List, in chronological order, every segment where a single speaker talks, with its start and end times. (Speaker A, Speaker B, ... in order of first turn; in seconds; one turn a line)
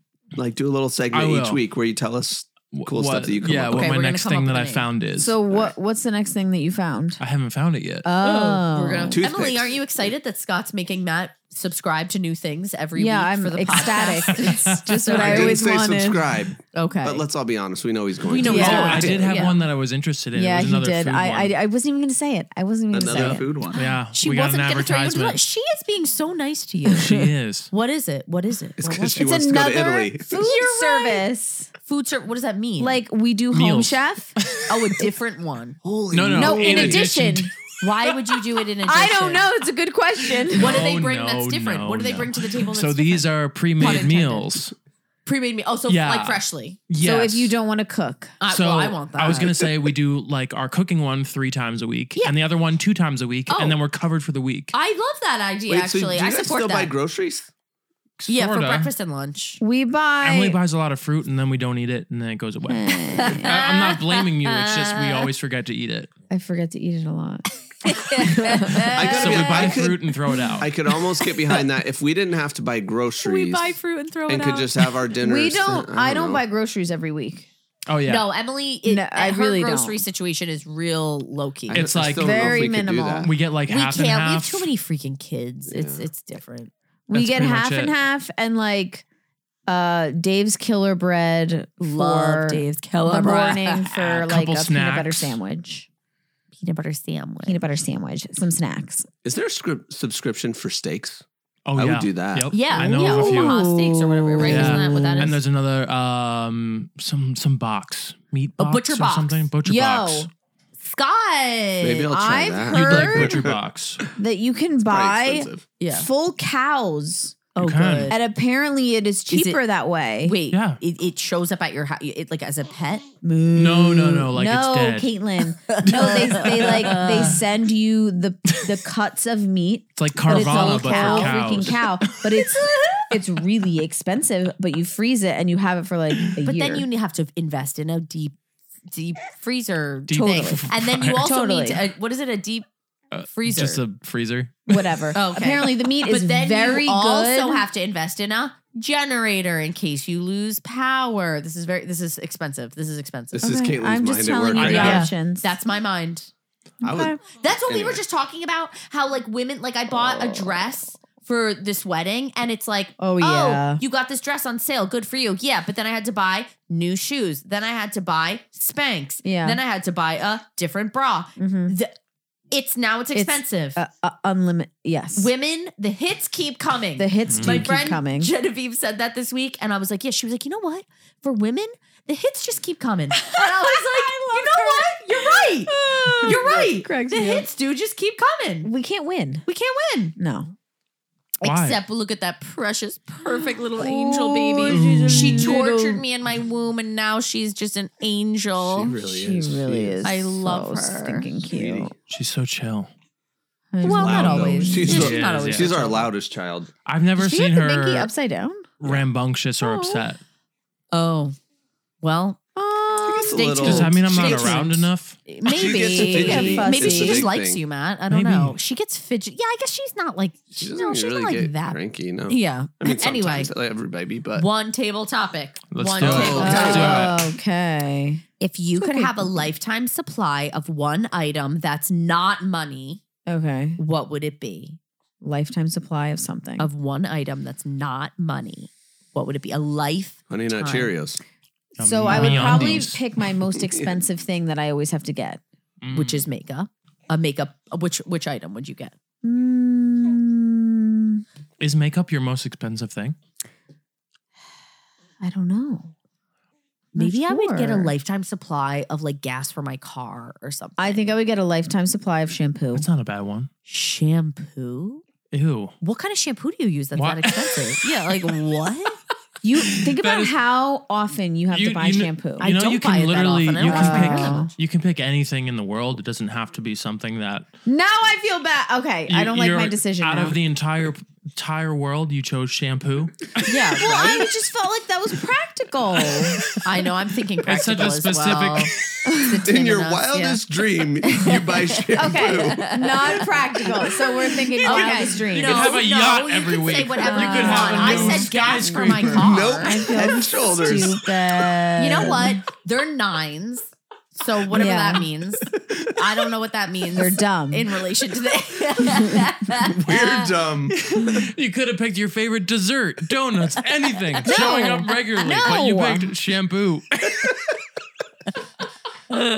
Speaker A: 0.3-3.9
Speaker B: 1.1-1.6
Speaker B: 2.7-5.3
Speaker C: 3.7-4.9
Speaker D: 5.2-7.2
Speaker B: 7.2-8.1
Speaker D: 8.0-9.2
Speaker C: 8.2-15.6
Speaker A: 9.1-9.8
Speaker D: 12.9-16.3
Speaker B: 14.3-15.1
Speaker A: 15.1-19.5
Speaker C: 16.7-17.2
Speaker C: 18.3-19.6
Speaker B: 18.3-21.5
Speaker D: 18.4-19.1
Speaker D: 20.3-23.6
Speaker A: 22.9-23.8
Speaker B: 23.0-25.4
Speaker C: 23.7-27.1
Speaker B: 26.9-27.7
Speaker D: 27.0-27.3
Speaker C: 27.7-29.4
Speaker A: 28.8-30.3
Speaker D: 29.1-31.7
Speaker C: 30.3-31.2
Speaker C: 31.8-33.0
Speaker D: 32.8-34.3
Speaker B: 33.5-34.7
Speaker C: 34.7-35.8
Speaker A: 35.8-37.1
Speaker B: 36.1-37.5
Speaker D: 36.3-37.5
Speaker C: 37.8-39.5
Speaker D: 38.8-40.8
Speaker B: 40.5-44.7
Speaker C: 40.5-43.2
Speaker C: 43.8-44.5
Speaker C: 45.2-46.8
Speaker B: 45.9-47.5
Speaker D: 47.0-48.4
Speaker C: 48.4-49.6
Speaker B: 48.5-54.7
Speaker C: 53.5-53.8
Speaker C: 54.7-56.9
Speaker A: 55.7-57.5
Speaker B: 58.2-58.9
Speaker C: 58.3-59.6
Speaker D: 59.6-60.6
Speaker B: 60.2-66.1
Speaker D: 62.7-63.6
Speaker C: 63.1-65.3
Speaker D: 66.3-67.4
Speaker C: 67.8-69.8
Speaker D: 68.1-69.2
Speaker A: 68.9-73.8
Speaker B: 69.0-70.7
Speaker C: 73.2-74.8
Speaker A: 74.3-76.4
Speaker D: 75.2-77.5
Speaker B: 77.9-78.2
Speaker C: 78.0-81.9
Speaker D: 78.8-80.0
Speaker B: 81.7-82.7
Speaker A: 81.7-83.3
Speaker D: 82.1-83.3
Speaker B: 83.2-84.7
Speaker C: 83.7-86.7
Speaker A: 85.7-86.1
Speaker D: 87.1-89.0
Speaker B: 87.1-87.9
Speaker D: 89.7-95.9
Speaker C: 91.8-93.9
Speaker B: 93.8-95.4
Speaker C: 96.5-97.6
Speaker D: 97.5-99.1
Speaker A: 99.2-101.2
Speaker B: 101.7-103.6
Speaker A: 101.8-102.6
Speaker C: 102.5-105.4
Speaker D: 102.7-105.3
Speaker B: 104.4-110.3
Speaker C: 108.6-109.5
Speaker D: 109.6-110.3
Speaker C: 110.8-112.1
Speaker A: 111.8-114.1
Speaker D: 112.1-113.5
Speaker B: 112.7-114.0
Speaker D: 114.2-117.4
Speaker A: 114.8-115.6
Speaker C: 115.8-116.1
Speaker C: 117.5-118.2
Speaker B: 117.6-118.1
Speaker D: 118.1-120.4
Speaker C: 119.3-119.6
Speaker C: 120.2-123.1
Speaker B: 120.5-120.8
Speaker D: 123.2-136.9
Speaker B: 123.5-125.1
Speaker C: 125.7-127.4
Speaker B: 125.8-127.3
Speaker B: 129.9-132.5
Speaker C: 130.3-131.4
Speaker C: 136.4-138.4
Speaker C: 138.9-142.7
Speaker B: 140.1-141.2
Speaker D: 140.2-141.8
Speaker B: 143.1-145.1
Speaker C: 143.3-143.8
Speaker D: 144.7-147.7
Speaker C: 145.1-153.5
Speaker A: 153.3-155.1
Speaker D: 153.4-155.6
Speaker B: 154.5-155.1
Speaker C: 154.6-156.3
Speaker D: 156.8-157.2
Speaker A: 156.8-158.0
Speaker C: 157.2-171.9
Speaker D: 160.0-160.6
Speaker D: 163.0-163.8
Speaker D: 169.2-169.6
Speaker D: 171.4-171.7
Speaker C: 172.5-173.8
Speaker D: 173.1-175.3
Speaker C: 175.1-188.7
Speaker D: 177.0-178.3
Speaker B: 177.3-177.6
Speaker D: 183.2-187.5
Speaker D: 188.6-189.4
Speaker C: 189.4-190.1
Speaker D: 190.2-190.5
Speaker C: 191.4-199.0
Speaker B: 191.4-191.8
Speaker D: 193.7-196.0
Speaker B: 194.7-195.5
Speaker A: 198.6-200.0
Speaker D: 199.0-201.9
Speaker C: 200.0-201.3
Speaker A: 201.4-201.9
Speaker B: 202.1-202.9
Speaker D: 203.7-205.1
Speaker C: 203.8-206.1
Speaker A: 203.8-206.7
Speaker B: 204.8-205.8
Speaker B: 206.8-208.1
Speaker D: 207.2-208.7
Speaker B: 208.8-210.2
Speaker D: 209.6-210.0
Speaker C: 210.9-211.3
Speaker C: 212.0-212.4
Speaker D: 212.6-213.6
Speaker A: 213.0-214.9
Speaker C: 213.3-214.7
Speaker B: 213.6-215.2
Speaker C: 215.3-223.5
Speaker D: 215.5-217.3
Speaker A: 215.5-217.6
Speaker B: 218.1-218.6
Speaker A: 220.6-224.5
Speaker C: 224.3-227.1
Speaker B: 225.7-227.2
Speaker A: 226.0-227.1
Speaker D: 226.4-228.2
Speaker C: 228.4-233.0
Speaker D: 228.8-229.5
Speaker D: 233.3-233.8
Speaker C: 233.8-234.8
Speaker D: 235.2-236.7
Speaker C: 236.6-240.9
Speaker A: 240.3-241.2
Speaker B: 241.8-243.0
Speaker D: 241.8-245.4
Speaker A: 242.1-242.8
Speaker A: 243.5-244.0
Speaker B: 245.8-246.2
Speaker C: 245.9-248.9
Speaker D: 249.2-251.2
Speaker B: 251.6-253.2
Speaker D: 255.2-255.9
Speaker C: 256.9-261.1
Speaker D: 256.9-257.9
Speaker D: 260.8-262.9
Speaker B: 262.7-263.5
Speaker C: 263.7-265.0
Speaker B: 265.3-265.7
Speaker C: 265.8-268.9
Speaker B: 266.9-268.3
Speaker D: 269.4-272.5
Speaker B: 269.6-270.3
Speaker B: 271.5-277.5
Speaker C: 272.4-274.5
Speaker D: 273.6-274.5
Speaker D: 277.6-280.4
Speaker B: 279.1-283.8
Speaker C: 283.4-284.3
Speaker D: 283.8-286.4
Speaker B: 286.1-286.6
Speaker C: 286.6-290.4
Speaker B: 287.4-288.8
Speaker D: 289.0-289.4
Speaker A: 289.4-292.8
Speaker C: 291.9-294.1
Speaker D: 291.9-295.7
Speaker C: 294.6-299.8
Speaker B: 294.7-299.4
Speaker D: 297.0-302.4
Speaker A: 299.2-301.1
Speaker C: 301.8-310.2
Speaker D: 304.5-305.1
Speaker D: 306.9-307.7
Speaker A: 309.6-311.1
Speaker B: 310.7-317.4
Speaker C: 314.1-315.6
Speaker D: 314.2-316.1